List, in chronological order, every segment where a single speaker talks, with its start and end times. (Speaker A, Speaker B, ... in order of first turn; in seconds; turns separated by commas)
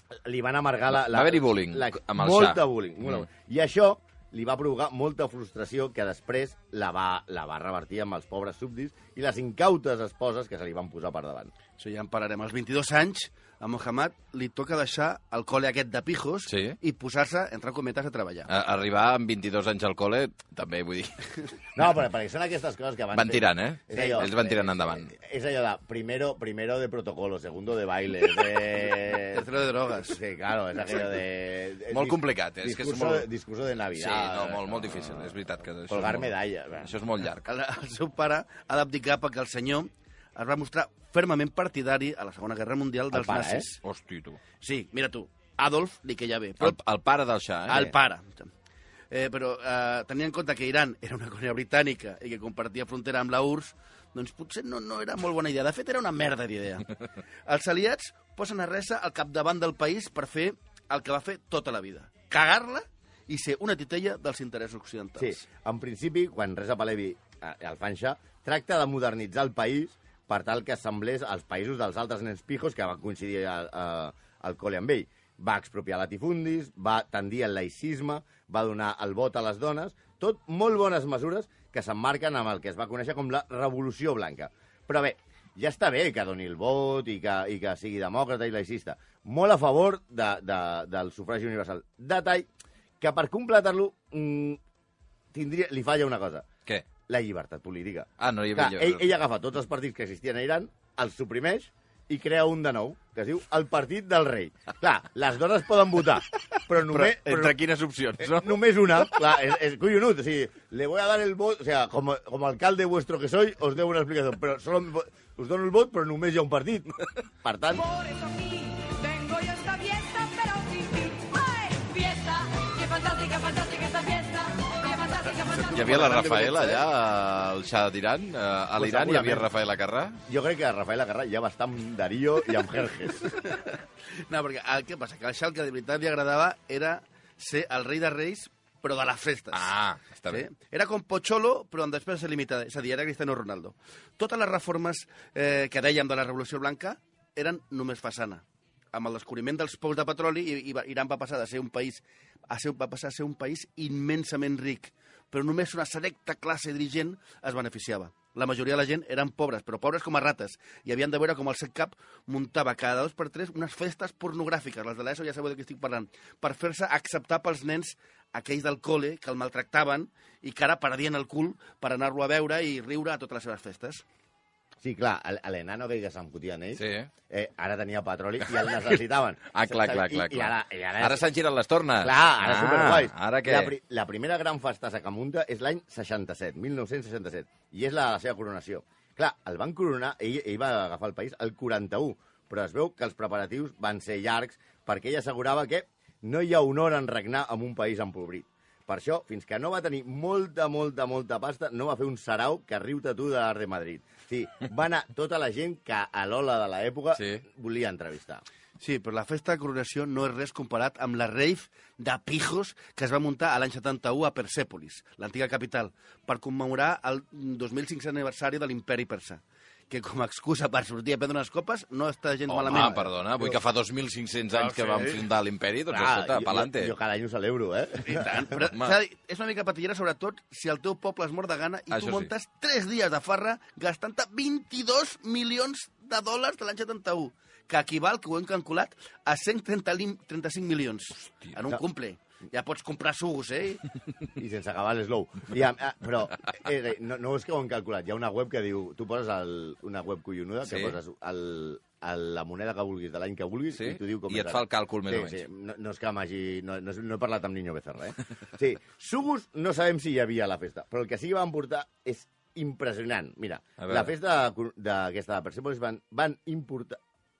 Speaker A: 0.1-11.5, Speaker B: 0.9-3.3, Speaker C: 11.8-18.5, Speaker B: 16.5-16.8, Speaker B: 18.5-21.3, Speaker A: 21.8-29.5, Speaker B: 23.1-25.1, Speaker C: 23.9-24.3, Speaker C: 29.1-30.2, Speaker A: 30.0-37.0, Speaker B: 31.9-33.3, Speaker B: 34.0-37.5, Speaker C: 37.5-43.8, Speaker A: 43.1-43.7, Speaker B: 43.8-44.4, Speaker C: 44.6-46.8, Speaker B: 46.6-47.9, Speaker C: 47.7-48.5, Speaker C: 49.1-56.9, Speaker C: 57.5-65.4, Speaker A: 65.2-92.5, Speaker A: 93.0-94.6, Speaker A: 95.3-96.5, Speaker A: 97.1-107.6, Speaker B: 98.2-99.1, Speaker B: 106.5-108.6, Speaker A: 108.2-118.0, Speaker D: 118.1-124.7, Speaker C: 125.0-126.8, Speaker B: 125.7-130.2, Speaker A: 128.8-129.4, Speaker A: 130.3-133.3, Speaker C: 133.3-139.7, Speaker B: 139.5-140.5, Speaker C: 140.3-174.1, Speaker A: 174.8-181.2, Speaker B: 176.8-177.1, Speaker B: 178.6-178.9, Speaker B: 179.5-183.7, Speaker A: 182.0-208.4, Speaker B: 207.1-207.4, Speaker C: 208.8-223.1, Speaker B: 222.5-226.9, Speaker C: 224.5-225.2, Speaker A: 225.9-228.5, Speaker C: 228.0-243.8, Speaker B: 231.9-232.3, Speaker B: 241.2-241.6, Speaker A: 244.4-267.0, Speaker B: 250.7-251.0, Speaker B: 253.8-255.4, Speaker B: 263.8-264.1